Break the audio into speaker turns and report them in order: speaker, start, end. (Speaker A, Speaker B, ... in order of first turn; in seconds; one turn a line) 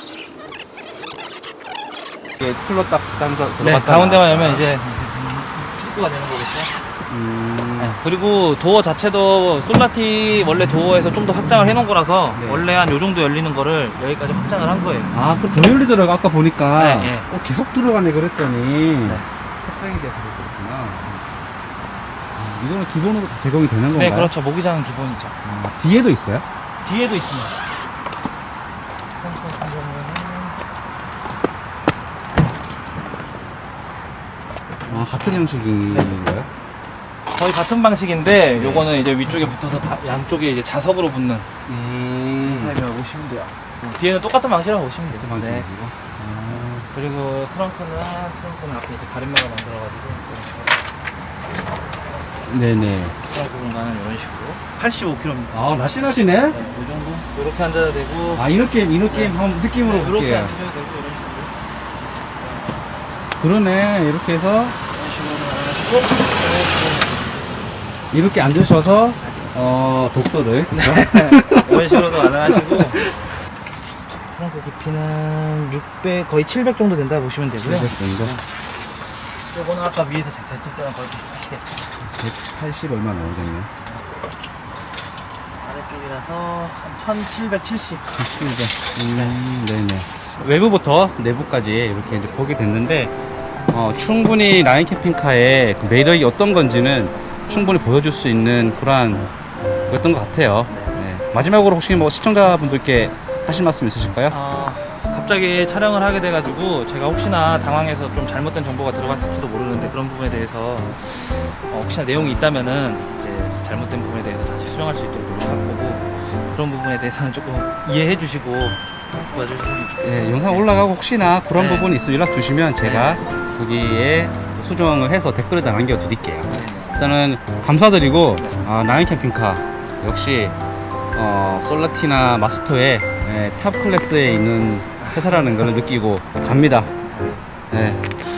Speaker A: 2.4-4.7
Speaker B: 3.6-6.7
Speaker A: 7.1-8.0
Speaker B: 7.8-15.1
Speaker A: 12.3-12.7
Speaker A: 15.1-21.2
Speaker B: 16.8-17.3
Speaker A: 22.4-24.3
Speaker B: 23.9-25.4
Speaker A: 25.4-26.4
Speaker B: 26.8-27.7
Speaker B: 29.1-30.6
Speaker B: 34.9-36.2
Speaker A: 34.9-36.5
Speaker B: 37.2-41.5
Speaker A: 38.6-38.9
Speaker A: 41.6-42.8
Speaker B: 42.4-45.7
Speaker A: 45.2-46.9
Speaker B: 46.4-50.9
Speaker A: 52.5-53.1
Speaker B: 53.2-55.6
Speaker A: 55.5-56.6
Speaker B: 56.5-58.4
Speaker A: 58.3-60.5
Speaker B: 59.0-61.6
Speaker B: 62.4-63.0
Speaker A: 63.4-64.8
Speaker B: 64.9-67.3
Speaker A: 68.1-73.3
Speaker B: 70.7-73.1
Speaker B: 74.3-78.5
Speaker A: 77.6-78.4
Speaker B: 79.4-81.7
Speaker A: 82.0-83.7
Speaker B: 83.8-84.1
Speaker B: 85.6-88.2
Speaker A: 88.2-93.2
Speaker B: 89.1-89.4
Speaker A: 93.7-99.3
Speaker A: 99.9-104.4
Speaker B: 100.7-101.0
Speaker B: 104.3-120.7
Speaker A: 120.0-130.6
Speaker B: 121.5-121.9
Speaker B: 122.8-123.2
Speaker B: 126.5-127.1
Speaker A: 131.1-136.9
Speaker B: 135.0-135.4
Speaker B: 137.0-137.5
Speaker A: 137.7-138.2